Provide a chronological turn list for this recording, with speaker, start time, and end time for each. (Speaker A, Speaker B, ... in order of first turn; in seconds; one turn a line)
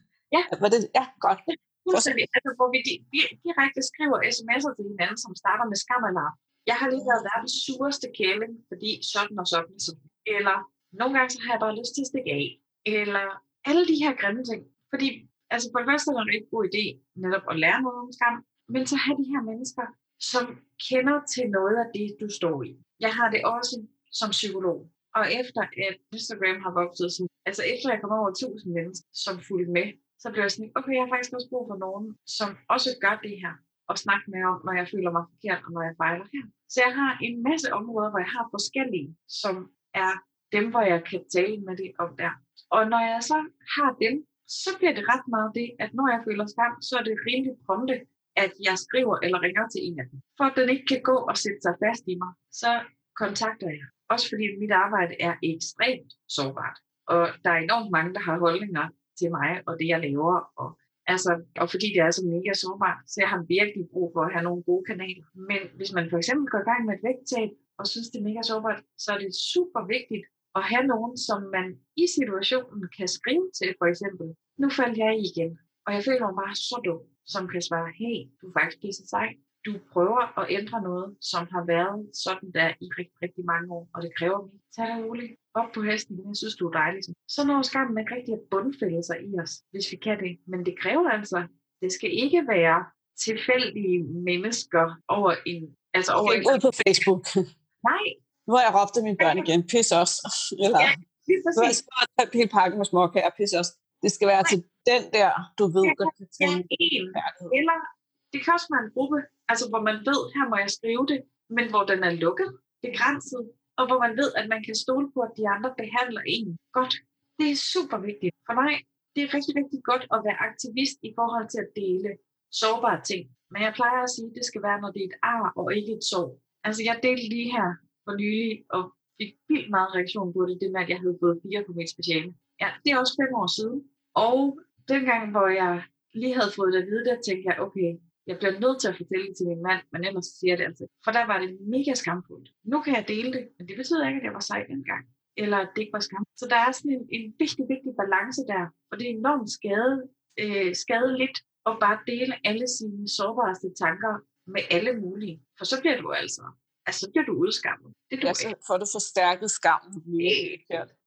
Speaker A: 0.5-2.1
Speaker B: 1.5-96.8
Speaker A: 6.9-7.2
Speaker A: 96.2-97.3
Speaker B: 97.8-98.2
Speaker A: 98.5-100.9
Speaker B: 99.2-99.5
Speaker B: 100.8-101.8
Speaker A: 101.5-107.6
Speaker B: 105.8-107.8
Speaker B: 108.3-158.5
Speaker A: 158.2-160.9
Speaker B: 160.2-160.6